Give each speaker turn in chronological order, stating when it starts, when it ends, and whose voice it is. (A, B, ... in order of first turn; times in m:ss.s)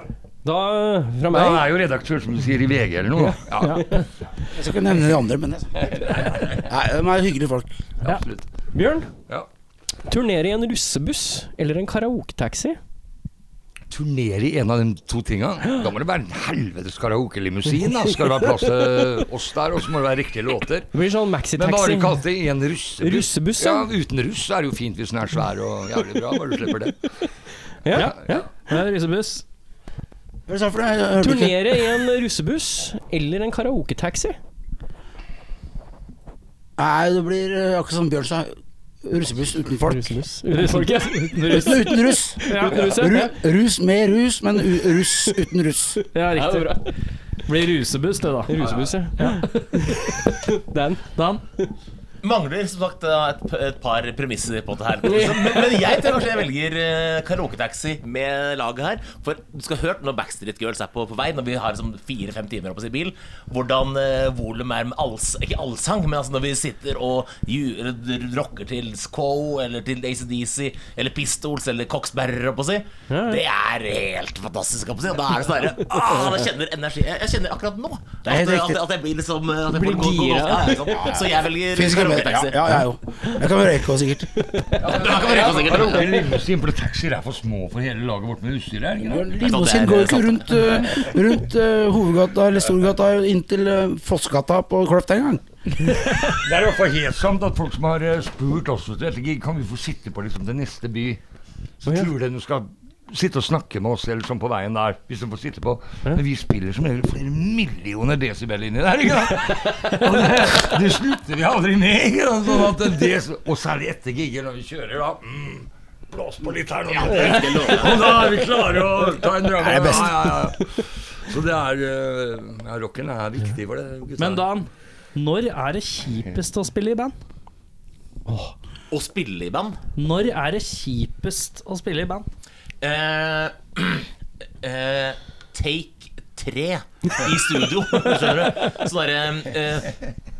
0:00.4-0:01.7 A
0:01.3-0:04.0 B
0:03.3-0:04.0 A
0:03.6-0:03.8 C
0:04.5-0:07.7 D
0:05.9-0:06.6 B
0:08.0-0:08.5 B
0:08.7-0:09.1 A
0:10.0-0:12.8 A
0:13.9-0:20.9 B
0:17.8-0:18.7 A
0:20.9-0:22.2 A
0:21.5-0:27.0 B
0:23.0-0:23.9 A
0:27.8-0:28.8 A
0:27.9-0:29.4 C
0:28.0-0:28.4 B
0:30.5-0:31.6 D
0:31.2-0:34.4 A
0:36.8-0:40.1 D
0:39.8-0:43.4 A
0:40.5-0:41.9 C
0:41.5-0:46.0 D
0:42.4-0:43.2 C
0:46.1-0:46.8 C
0:46.3-0:46.9 A
0:47.4-0:48.6 C
0:48.4-0:51.0 A
0:49.1-0:50.2 C
0:51.2-0:51.4 C
0:52.2-1:22.6 E
0:55.0-0:56.0 A
1:13.1-1:13.4 A
1:16.0-1:16.3 A
1:18.2-1:18.8 D
1:19.7-1:21.0 A
1:21.7-1:24.5 D
1:24.4-1:25.0 A
1:24.8-1:29.4 B
1:24.9-1:26.3 E
1:29.0-1:35.4 D
1:29.4-1:30.6 E
1:36.3-1:41.2 B
1:41.8-2:04.4 B
1:41.8-1:42.1 A
1:56.9-1:58.4 E
1:59.6-2:00.3 D
2:04.2-2:07.1 C
2:08.3-2:08.5 A
2:08.9-2:09.8 E
2:10.0-2:12.2 C
2:12.8-2:14.1 E
2:14.6-2:20.0 E